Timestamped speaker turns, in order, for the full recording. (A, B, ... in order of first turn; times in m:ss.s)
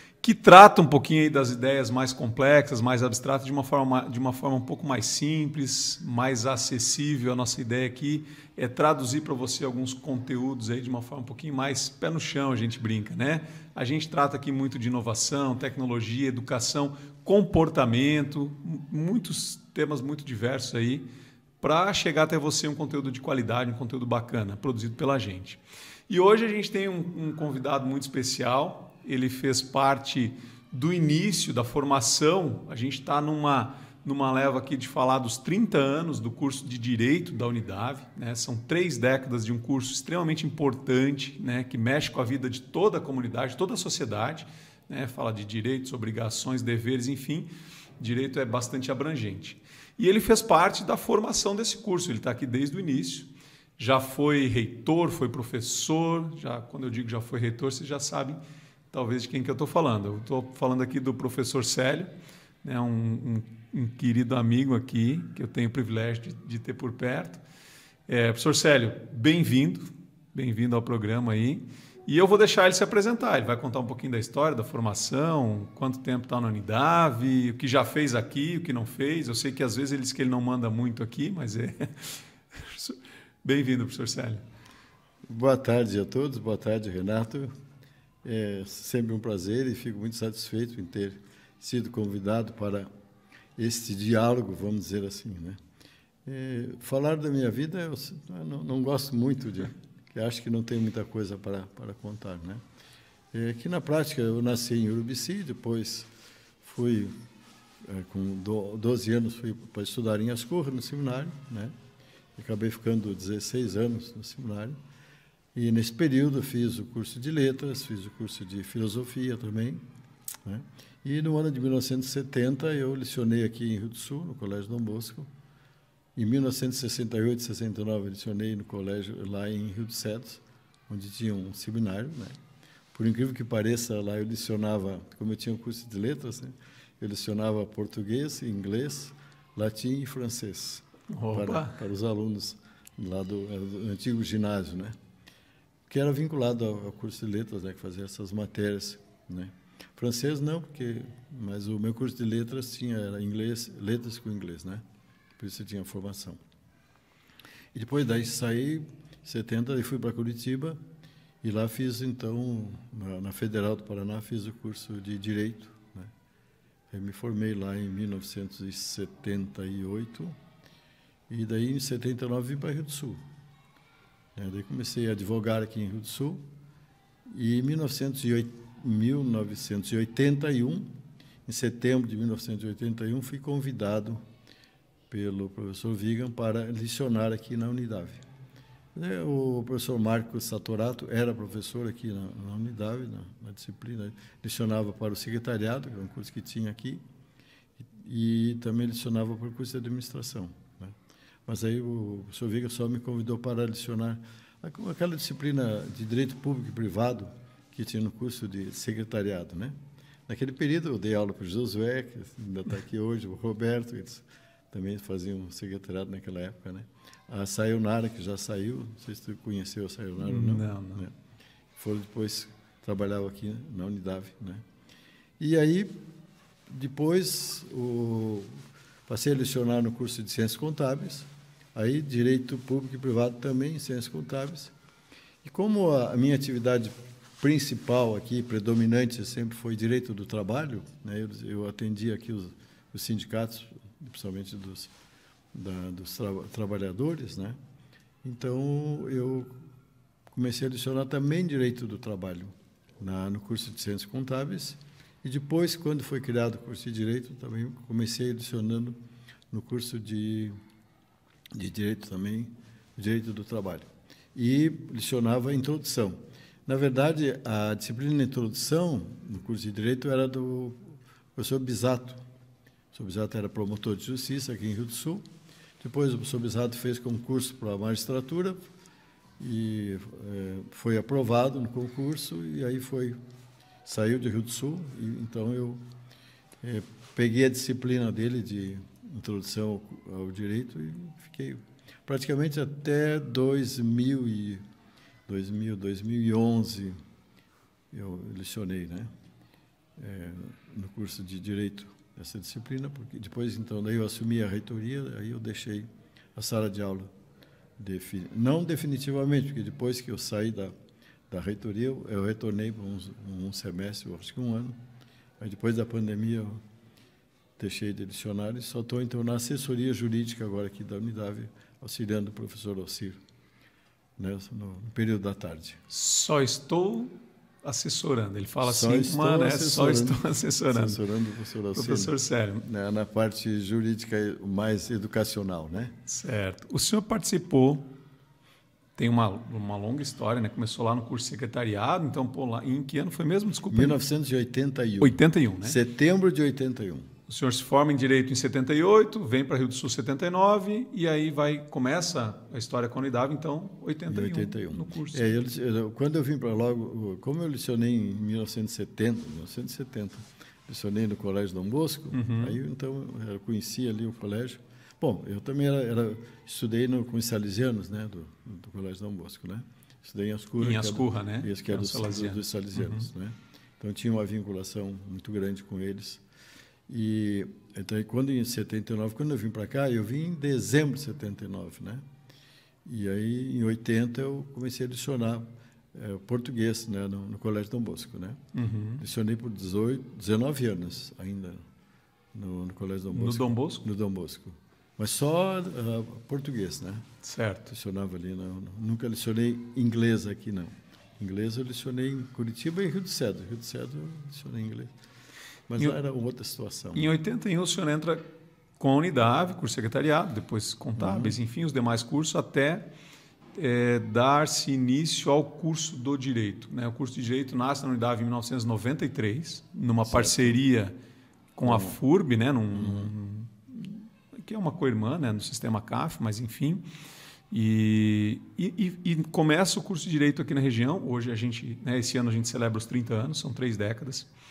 0:00.2-0:21.0 A
0:21.6-0:47.5 A
0:48.0-0:58.4 A
0:58.9-1:02.1 A
1:02.6-1:07.4 A
1:08.1-1:24.4 A
1:25.3-1:27.5 B
1:28.2-1:32.9 B
1:33.6-1:35.6 B
1:36.2-1:42.6 B
1:43.3-1:46.1 B
1:46.6-1:47.2 B
1:47.8-1:51.7 B
1:52.4-1:54.8 B
1:55.6-1:59.8 B
2:00.4-2:05.3 B
2:06.2-2:12.4 B
2:12.9-2:24.9 B
2:21.1-2:21.8 A
2:25.9-2:34.8 B
2:35.4-2:36.4 B
2:37.7-2:40.8 B
2:41.4-2:46.1 B
2:46.9-2:50.4 B
2:51.3-2:53.2 B
2:54.4-2:56.4 B
2:57.3-3:00.9 B
3:01.5-3:04.2 B
3:05.1-3:08.2 B
3:09.0-3:17.0 B
3:17.8-3:29.8 B
3:30.3-3:41.1 B
3:40.2-3:41.0 A
3:41.8-3:44.6 B
3:45.4-3:46.0 B
3:46.7-3:54.7 B
3:55.4-4:04.9 B
4:05.5-4:07.6 B
4:08.2-4:09.6 B
4:10.3-4:19.0 B
4:19.5-4:20.6 B
4:21.5-4:32.2 B
4:32.9-4:35.2 B
4:35.8-4:38.6 B
4:39.4-4:43.2 B
4:43.8-4:45.8 B
4:46.6-4:54.6 B
4:55.3-4:57.0 B
4:57.9-4:59.1 B
5:00.0-5:07.1 B
5:07.8-5:10.7 B
5:11.3-5:14.8 B
5:15.4-5:16.6 B
5:17.6-5:23.2 B
5:24.2-5:25.8 B
5:25.9-5:31.0 A
5:28.6-5:36.0 B
5:31.7-5:32.6 A
5:36.1-5:37.9 A
5:39.0-5:44.0 A
5:43.7-5:47.1 B
5:45.0-5:45.8 A
5:47.3-5:55.2 A
5:54.1-6:16.2 B
6:02.1-6:02.6 A
6:10.6-6:13.1 A
6:16.9-6:22.0 B
6:22.8-6:28.4 B
6:28.5-6:29.0 A
6:29.0-6:31.6 B
6:32.3-6:37.1 B
6:33.1-6:33.8 A
6:37.2-6:37.7 A
6:37.7-6:44.9 B
6:45.7-6:47.1 B
6:47.0-6:48.3 A
6:48.8-6:52.9 A
6:51.0-6:51.4 B
6:53.6-7:01.0 A
7:00.0-7:00.6 B
7:01.6-7:06.9 A
7:01.6-7:02.0 B
7:02.7-7:03.1 B
7:07.5-7:14.3 A